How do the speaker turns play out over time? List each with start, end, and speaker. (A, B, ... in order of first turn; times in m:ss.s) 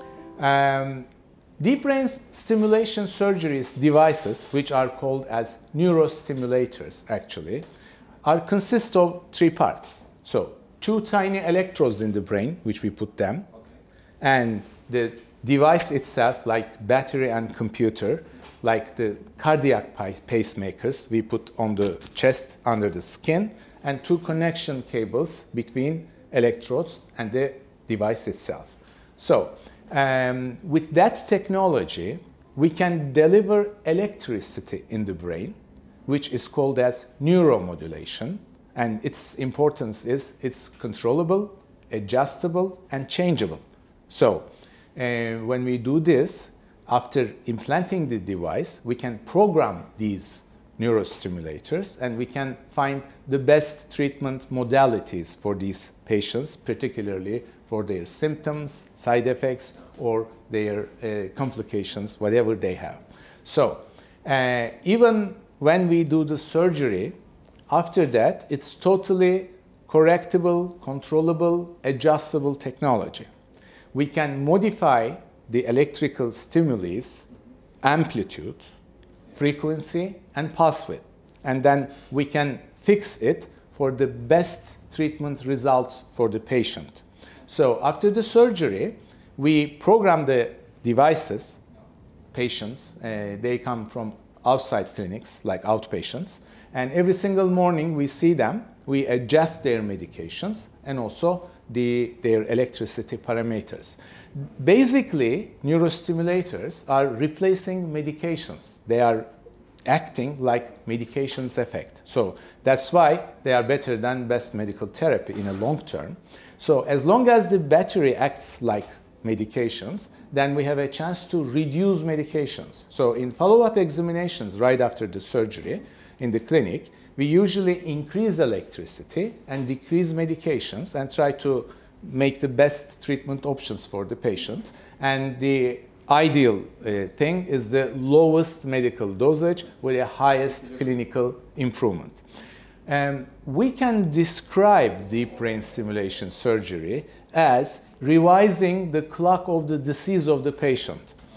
0:00.4-0:01.1 A
0:01.6-0:07.6 A
0:08.2-0:13.5 A
0:14.2-1:07.1 A
1:07.7-1:13.3 A
1:13.9-1:17.3 A
1:17.8-1:18.7 A
1:19.3-1:31.6 A
1:32.3-1:49.3 A
1:49.8-2:22.2 A
2:22.9-2:31.2 A